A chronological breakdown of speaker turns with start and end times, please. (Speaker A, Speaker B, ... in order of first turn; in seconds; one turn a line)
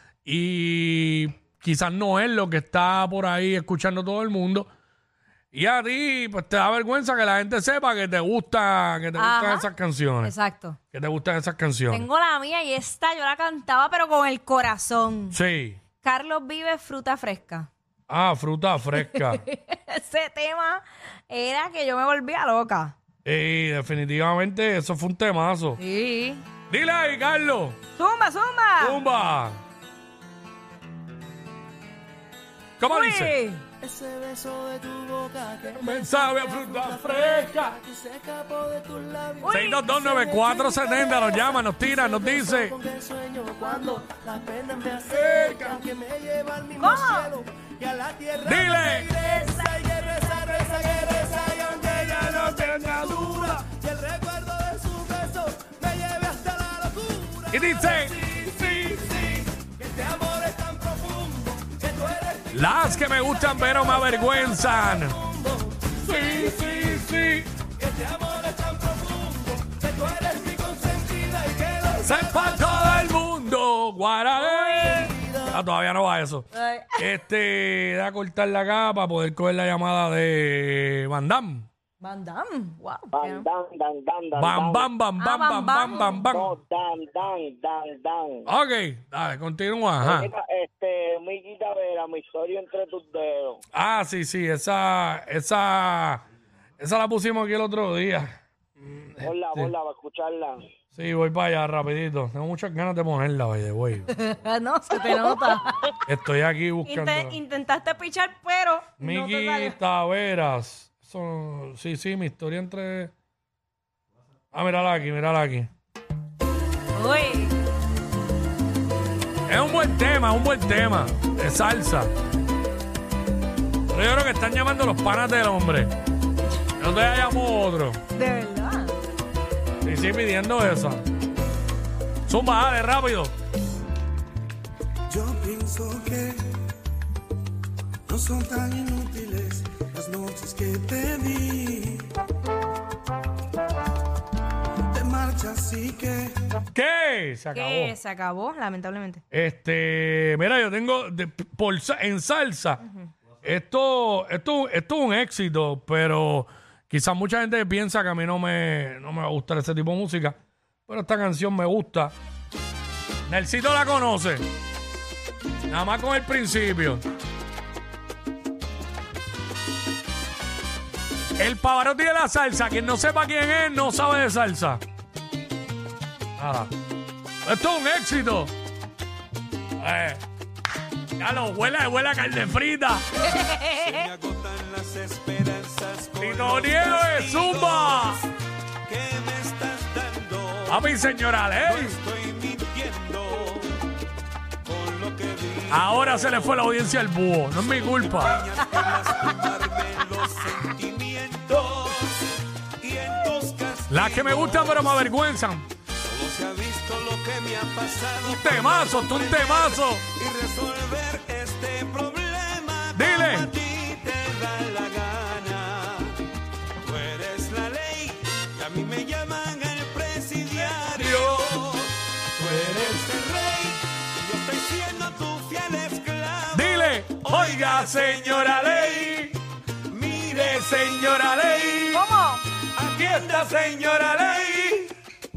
Speaker A: 0.2-4.7
Speaker A: 5.5-10.3
Speaker B: 9.2-10.8
Speaker A: 10.9-12.1
Speaker B: 11.9-15.4
Speaker A: 15.3-15.8
Speaker B: 15.9-17.7
Speaker A: 18.1-19.4
Speaker B: 18.9-22.9
Speaker A: 23.2-25.8
Speaker B: 25.8-26.5
Speaker A: 26.7-27.8
Speaker B: 27.9-29.1
Speaker A: 28.8-29.6
Speaker A: 32.8-33.4
Speaker B: 32.9-33.7
Speaker C: 33.8-41.1
Speaker A: 35.7-37.8
Speaker B: 39.4-39.9
Speaker A: 39.5-42.8
Speaker C: 42.1-62.5
Speaker A: 45.1-45.8
Speaker B: 46.8-47.3
Speaker A: 48.4-49.1
Speaker A: 52.1-53.5
Speaker A: 57.5-58.2
Speaker A: 62.5-65.2
Speaker C: 63.5-65.9
Speaker A: 66.0-67.5
Speaker C: 67.8-72.5
Speaker A: 72.0-81.7
Speaker B: 74.4-75.2
Speaker B: 76.5-77.0
Speaker B: 82.0-83.5
Speaker D: 83.1-84.9
Speaker A: 84.3-86.6
Speaker B: 85.2-86.3
Speaker D: 86.3-88.5
Speaker A: 88.5-90.3
Speaker D: 90.0-93.6
Speaker A: 93.7-96.2
Speaker A: 96.8-99.7
Speaker D: 99.2-100.6
Speaker A: 100.9-104.1
Speaker B: 104.1-106.0
Speaker A: 106.1-107.4
Speaker B: 106.8-109.8
Speaker A: 109.0-113.1
Speaker A: 114.5-115.7
Speaker B: 116.9-117.5
Speaker A: 119.5-122.1
Speaker A: 123.9-125.9
Speaker A: 126.8-128.0
Speaker B: 128.1-129.0
Speaker A: 129.8-131.0
Speaker A: 132.3-133.3
Speaker C: 140.8-141.1
Speaker A: 146.7-147.9
Speaker B: 147.5-149.2
Speaker A: 149.3-152.8
Speaker B: 152.8-153.1
Speaker A: 153.4-160.3
Speaker A: 160.9-162.1
Speaker A: 163.3-164.4
Speaker A: 165.7-167.0
Speaker A: 171.4-174.8
Speaker A: 176.4-176.7
Speaker A: 177.4-178.5
Speaker A: 179.8-180.2
Speaker A: 181.2-183.0
Speaker B: 183.2-184.1
Speaker E: 183.3-188.3
Speaker A: 186.2-188.2
Speaker E: 188.8-190.9
Speaker A: 190.7-192.0
Speaker E: 191.6-193.8
Speaker E: 194.6-196.6
Speaker A: 195.7-198.4
Speaker E: 197.7-205.1
Speaker A: 203.9-205.7
Speaker E: 205.9-216.2
Speaker A: 208.2-210.0
Speaker A: 212.9-213.5
Speaker E: 216.8-229.3
Speaker A: 220.9-221.5
Speaker A: 222.4-223.1
Speaker A: 226.5-229.3
Speaker E: 229.9-231.9
Speaker A: 230.4-232.0
Speaker B: 231.9-232.4
Speaker E: 232.7-234.9
Speaker A: 233.2-233.6